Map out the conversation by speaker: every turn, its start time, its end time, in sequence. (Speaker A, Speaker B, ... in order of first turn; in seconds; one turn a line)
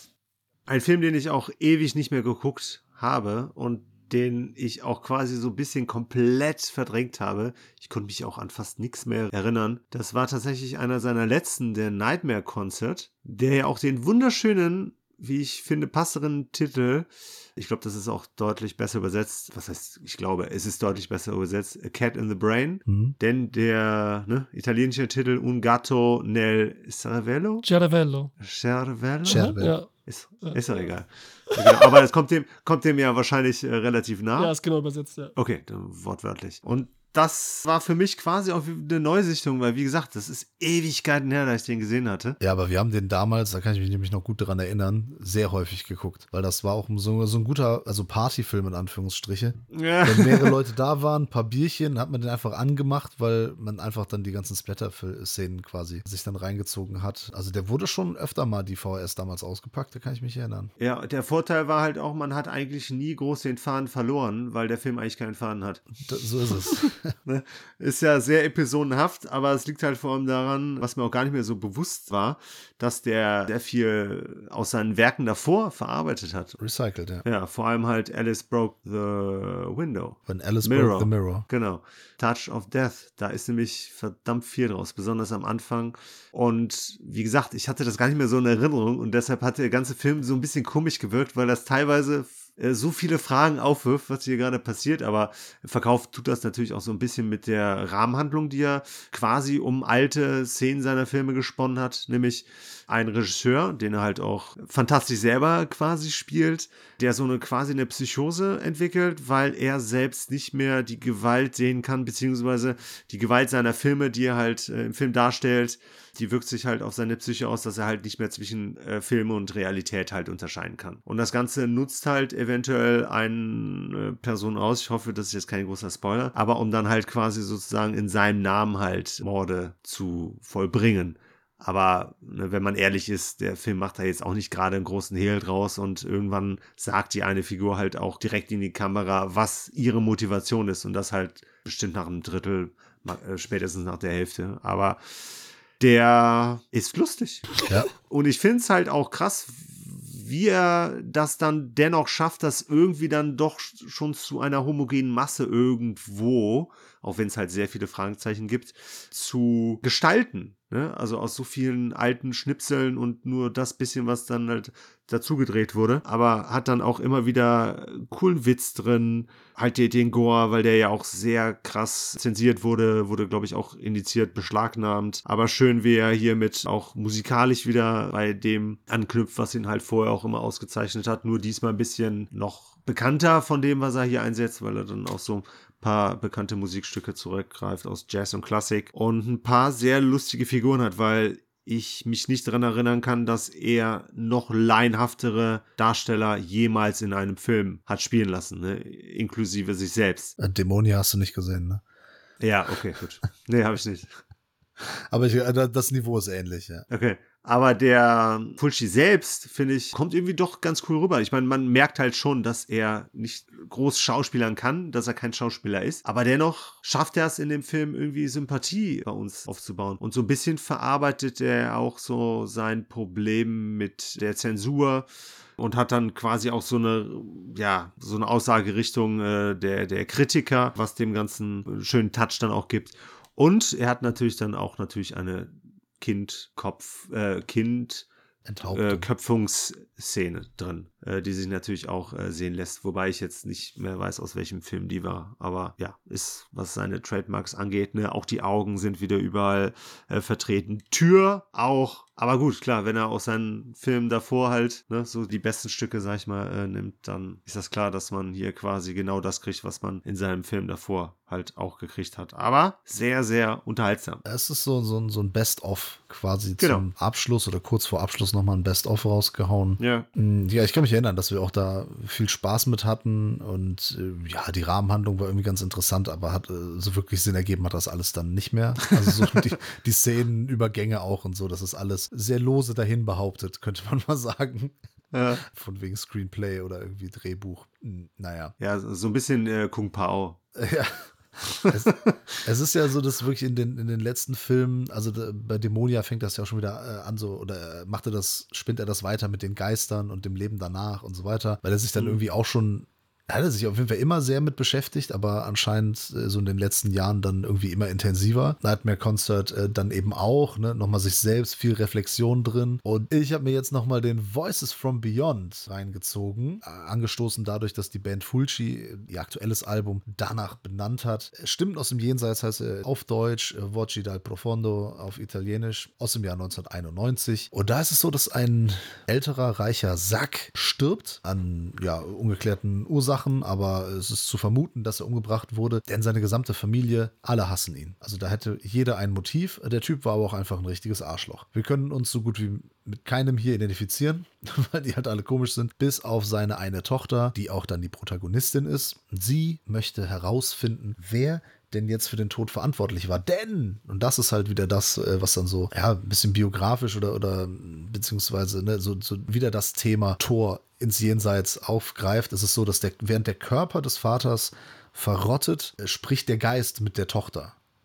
Speaker A: 0.7-27.7
Speaker B: 22.9-23.1
Speaker C: 27.6-28.3
Speaker A: 28.4-34.5
Speaker B: 29.2-29.7
Speaker C: 29.3-29.9
Speaker C: 30.4-30.8
Speaker C: 31.5-31.9
Speaker C: 34.4-35.3
Speaker A: 35.4-42.4
Speaker B: 42.4-60.7
Speaker A: 49.7-50.6
Speaker A: 60.8-65.9
Speaker B: 66.0-67.1
Speaker A: 67.2-76.6
Speaker B: 76.6-77.2
Speaker A: 77.2-200.3
Speaker B: 80.3-81.5
Speaker B: 200.4-201.8
Speaker A: 202.4-204.1
Speaker B: 204.8-206.8
Speaker A: 206.9-225.1
Speaker A: 225.6-238.1
Speaker B: 238.4-239.1
Speaker A: 238.7-264.2
Speaker B: 264.2-284.8
Speaker A: 266.6-266.9
Speaker A: 269.8-270.1
Speaker A: 278.9-279.2
Speaker A: 285.1-285.4
Speaker B: 285.4-288.5
Speaker A: 288.6-290.4
Speaker B: 290.6-291.1
Speaker A: 291.5-292.2
Speaker B: 291.7-367.5